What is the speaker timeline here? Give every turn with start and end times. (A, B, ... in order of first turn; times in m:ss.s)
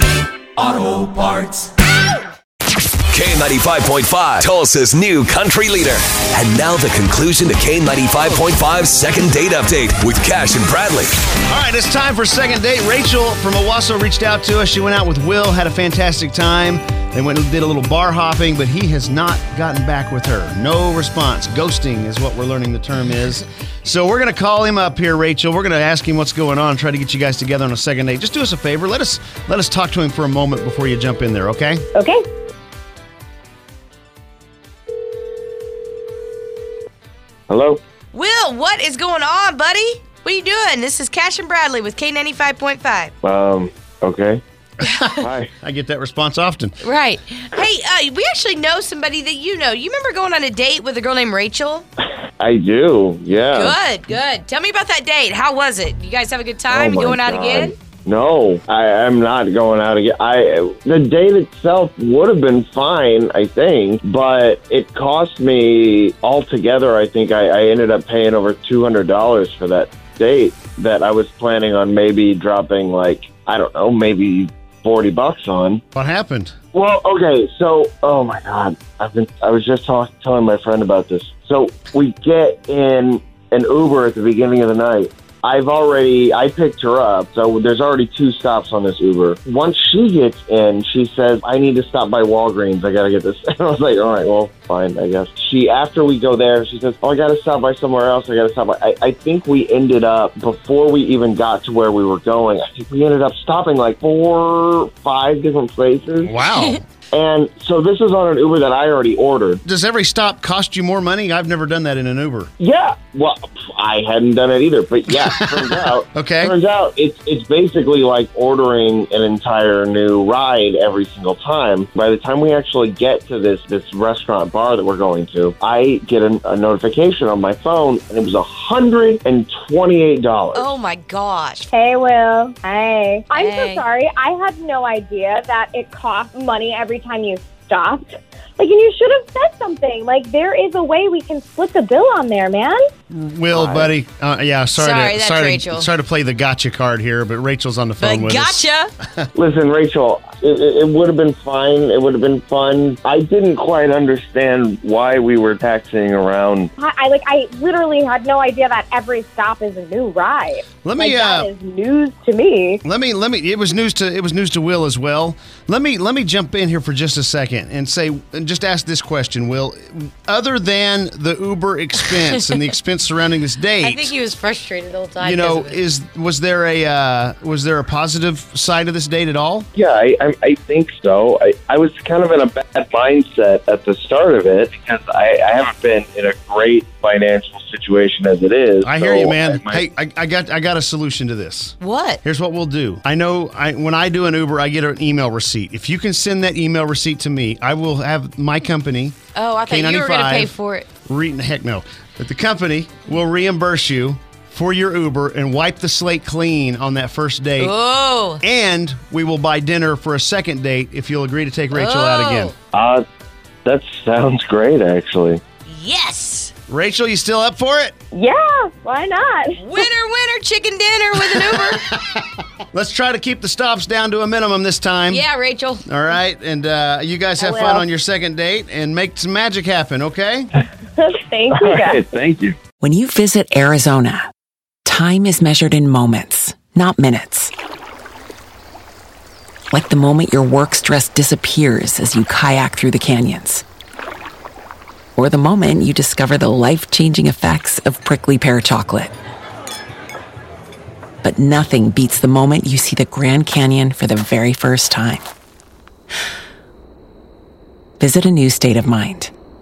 0:00.6-0:01.5 A
0:03.1-0:11.2 A
0:11.5-0:31.8 B
0:32.0-0:32.2 C
0:37.5-0:37.8 D
0:38.1-0:43.1 E
0:43.2-0:44.4 D
0:44.8-0:46.7 B
0:45.2-0:45.5 D
0:46.8-0:51.9 E
0:52.4-0:53.8 D
0:53.5-0:57.7 E
0:56.7-1:15.8 D
1:15.9-1:16.6 B
1:16.7-1:46.3 D
1:46.2-1:46.8 B
1:47.1-1:49.6 D
1:49.6-1:52.5 B
1:52.6-2:10.7 D
1:56.1-1:56.5 B
2:10.5-2:11.7 E
2:11.7-2:22.8 C
2:13.4-2:13.8 E
2:23.1-2:28.6 B
2:23.5-2:23.9 D
2:24.8-2:25.9 E
2:28.0-2:28.9 E
2:29.4-2:36.7 D
2:36.8-2:42.8 C
2:40.8-2:41.5 B
2:42.8-2:54.1 B
2:53.8-2:55.8 E
2:55.2-2:59.7 B
2:59.8-3:09.8 D
3:08.8-3:19.2 B
3:11.8-3:12.2 E
3:19.4-3:20.9 E
3:19.7-3:20.5 B
3:21.1-3:27.7 B
3:27.6-3:28.4 E
3:28.4-3:32.5 B
3:31.7-3:32.5 E
3:32.7-3:33.0 D
3:33.6-3:35.4 D
3:35.7-3:36.5 E
3:36.7-3:38.0 B
3:38.1-3:39.9 C
3:39.6-3:41.8 E
3:41.3-3:45.2 B
3:45.1-3:45.8 E
3:45.9-3:50.5 B
3:47.4-3:47.9 C
3:51.0-3:52.0 C
3:51.5-3:52.6 D
3:52.8-3:54.2 F
3:54.9-3:57.5 F
3:59.7-4:03.6 F
4:05.2-4:09.1 F
4:11.2-4:15.2 F
4:18.0-4:19.3 F